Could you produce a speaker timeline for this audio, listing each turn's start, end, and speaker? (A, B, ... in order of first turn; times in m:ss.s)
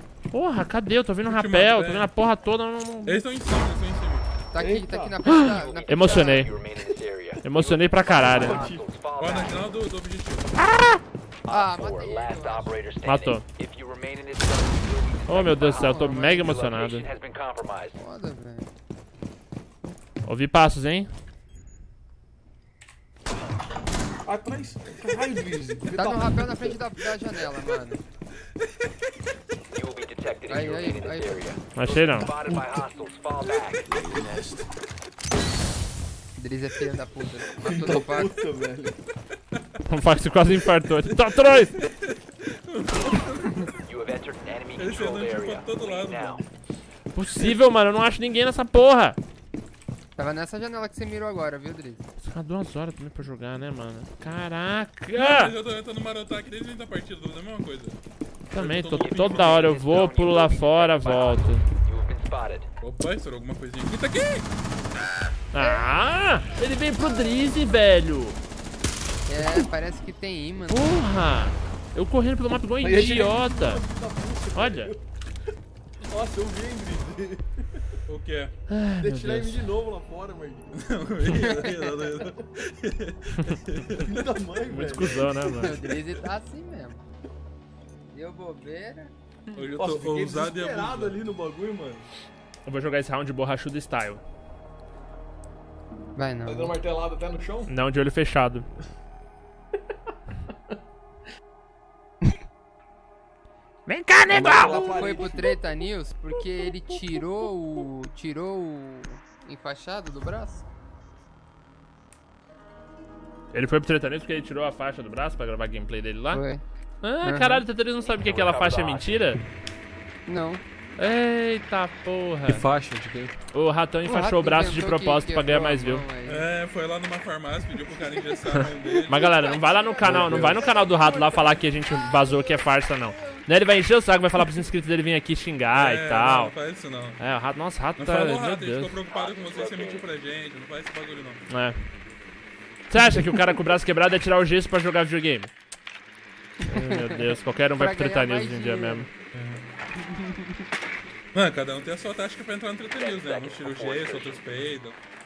0:00.3-0:03.2 A
0:01.2-0:02.2 B
0:03.0-0:04.3 B
0:04.5-0:06.5 C
0:04.6-0:05.2 D
0:05.2-0:06.5 A
0:05.4-0:09.7 E
0:07.4-0:08.7 A
0:08.1-0:08.8 D
0:09.2-0:10.5 B
0:10.6-0:11.0 A
0:11.4-0:18.0 E
0:11.5-0:12.8 C
0:13.0-0:13.4 A
0:15.3-0:17.1 A
0:15.8-0:16.5 C
0:17.9-0:18.7 C
0:20.2-0:21.1 A
0:24.2-0:26.8 D
0:25.9-0:28.0 C
0:29.7-0:33.8 E
0:30.5-0:31.4 C
0:31.7-0:32.3 A
0:33.9-0:34.7 D
0:36.4-0:38.3 C
0:37.6-0:39.0 D
0:39.9-0:41.8 A
0:40.9-0:43.9 B
0:43.9-0:46.4 E
0:44.7-0:46.4 B
0:47.1-0:49.2 A
0:50.2-0:52.1 C
0:52.2-0:55.5 A
0:55.1-0:58.0 B
0:58.5-1:01.7 A
0:58.5-0:59.8 B
0:59.0-1:02.7 E
1:02.8-1:04.5 B
1:05.5-1:08.4 A
1:05.6-1:06.1 C
1:07.0-1:07.8 C
1:09.2-1:11.0 C
1:10.7-1:13.8 A
1:12.8-1:15.0 D
1:14.5-1:14.9 A
1:16.1-1:17.9 D
1:18.1-1:18.5 B
1:18.7-1:19.6 A
1:19.0-1:20.8 D
1:20.8-1:24.2 B
1:21.2-1:22.2 C
1:24.0-1:25.2 D
1:24.7-1:25.8 A
1:25.5-1:27.0 C
1:28.1-1:29.5 C
1:29.5-1:31.2 B
1:29.8-1:32.1 D
1:32.6-1:34.2 A
1:36.1-1:36.8 C
1:36.4-1:37.7 D
1:37.7-1:38.6 A
1:43.8-1:44.8 A
1:44.3-1:45.6 D
1:44.3-1:50.6 C
1:53.5-1:56.4 A
1:56.3-1:56.6 C
1:57.0-1:59.4 A
1:57.2-1:57.6 C
1:58.0-1:59.2 E
2:00.3-2:00.6 C
2:01.0-2:02.7 A
2:02.5-2:03.3 D
2:03.5-2:06.0 A
2:04.0-2:06.5 C
2:06.2-2:09.4 B
2:08.9-2:11.5 D
2:09.1-2:16.5 A
2:10.4-2:11.6 C
2:12.2-2:12.6 C
2:15.7-2:17.2 B
2:17.2-2:19.0 A
2:18.0-2:21.4 B
2:19.1-2:20.1 E
2:21.5-2:21.9 A
2:22.9-2:25.5 A
2:26.6-2:29.1 C
2:26.7-2:29.1 A
2:29.3-2:29.7 B
2:30.1-2:30.4 C
2:31.3-2:35.0 B
2:32.9-2:34.4 E